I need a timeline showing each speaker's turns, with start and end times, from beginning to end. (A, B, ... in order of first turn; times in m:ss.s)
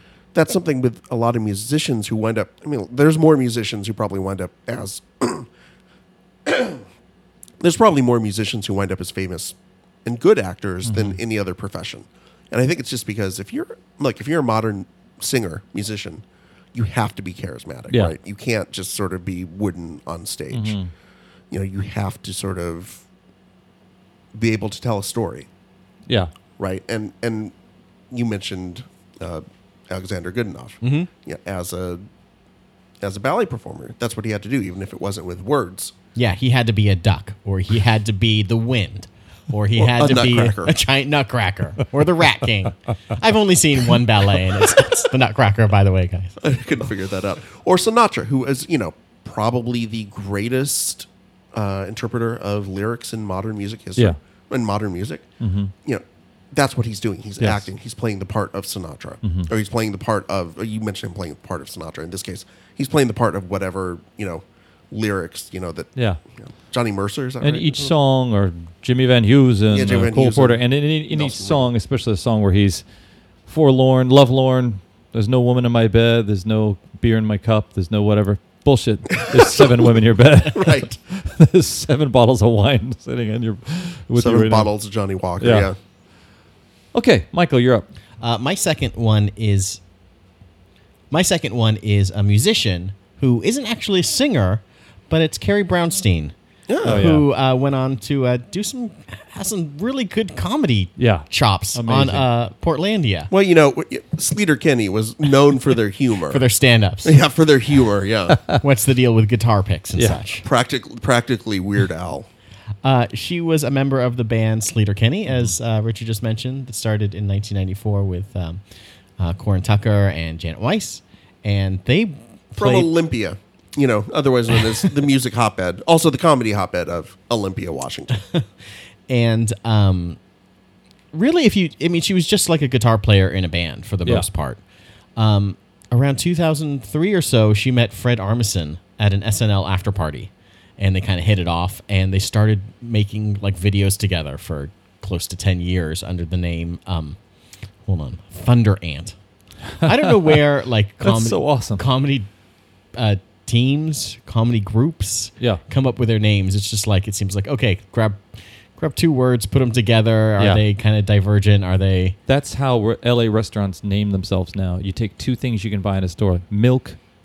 0:00.3-0:05.5 A
0:06.4-0:06.8 A
0:07.6-0:20.8 A
0:10.8-0:11.2 B
0:17.9-0:18.1 B
0:20.5-0:20.9 B
0:21.5-0:23.0 A
0:24.3-0:25.5 A
0:26.6-0:27.5 A
0:28.1-0:32.0 A
0:30.8-0:31.1 C
0:33.0-0:35.9 A
0:36.1-0:46.4 C
0:39.7-0:40.7 A
0:46.4-0:55.2 A
0:55.4-0:55.7 B
0:55.8-1:07.9 A
0:57.4-0:57.7 B
0:59.2-0:59.5 B
1:07.4-1:12.8 B
1:09.7-1:11.7 A
1:13.4-1:24.7 B
1:19.3-1:21.0 A
1:24.1-1:25.8 A
1:25.4-1:25.7 B
1:26.9-1:27.9 B
1:28.2-1:29.8 C
1:31.1-1:43.3 C
1:36.7-1:37.0 A
1:36.8-1:37.2 B
1:41.0-1:42.2 B
1:43.3-1:46.4 A
1:46.3-1:47.2 C
1:47.0-1:48.4 A
1:48.3-1:48.6 B
1:48.6-1:50.4 C
1:50.4-1:52.3 A
1:52.8-1:58.6 C
1:59.2-2:02.9 C
2:02.6-2:08.2 A
2:08.2-2:08.4 C
2:09.1-2:10.2 C
2:11.1-2:14.6 C
2:15.2-2:27.2 C
2:27.8-2:29.1 C
2:29.8-2:30.4 B
2:29.8-2:32.3 C
2:31.0-2:31.8 B
2:32.9-2:42.2 C
2:42.3-2:47.0 B